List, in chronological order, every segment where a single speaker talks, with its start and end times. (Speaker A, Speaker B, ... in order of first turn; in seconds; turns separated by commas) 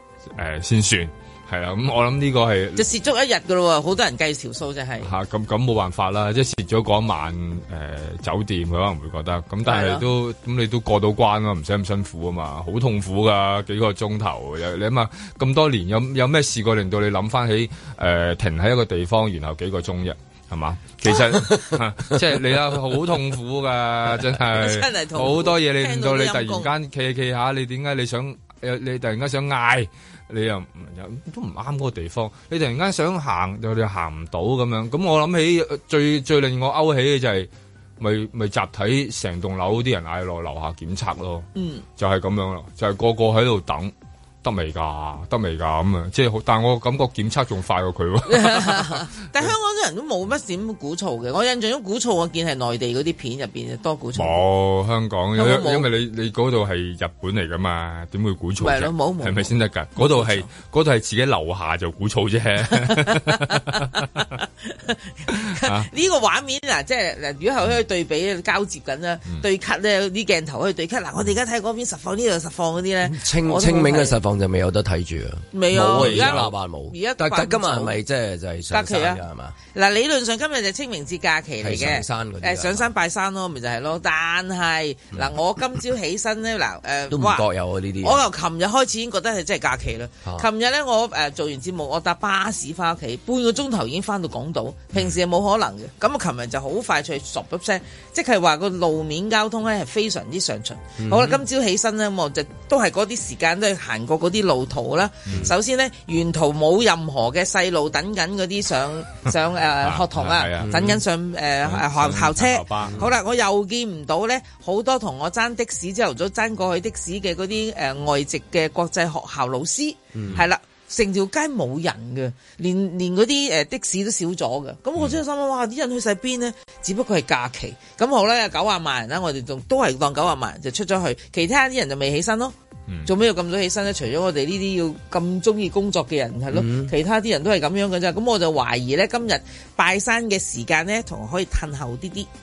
Speaker A: 0.3-2.8, Speaker B: 2.8-5.1, Speaker A: 5.0-43.9, Speaker B: 9.7-10.0, Speaker B: 24.5-26.7, Speaker B: 41.5-41.8, Speaker A: 44.4-49.5, Speaker B: 48.3-54.4, Speaker A: 54.2-64.1, Speaker B: 55.4-55.9, Speaker B: 58.6-60.5, Speaker B: 62.7-63.8, Speaker B: 64.3-74.2, Speaker A: 65.4-65.9, Speaker C: 73.0-79.6, Speaker B: 75.5-78.0, Speaker A: 75.8-76.5, Speaker B: 78.7-87.5, Speaker C: 81.6-82.9, Speaker C: 87.1-88.2, Speaker B: 88.0-132.6, Speaker C: 101.0-101.4, Speaker A: 109.8-110.9, Speaker C: 110.6-111.0, Speaker A: 111.6-113.0, Speaker C: 120.1-120.4, Speaker B: 133.1-142.3, Speaker C: 136.5-136.9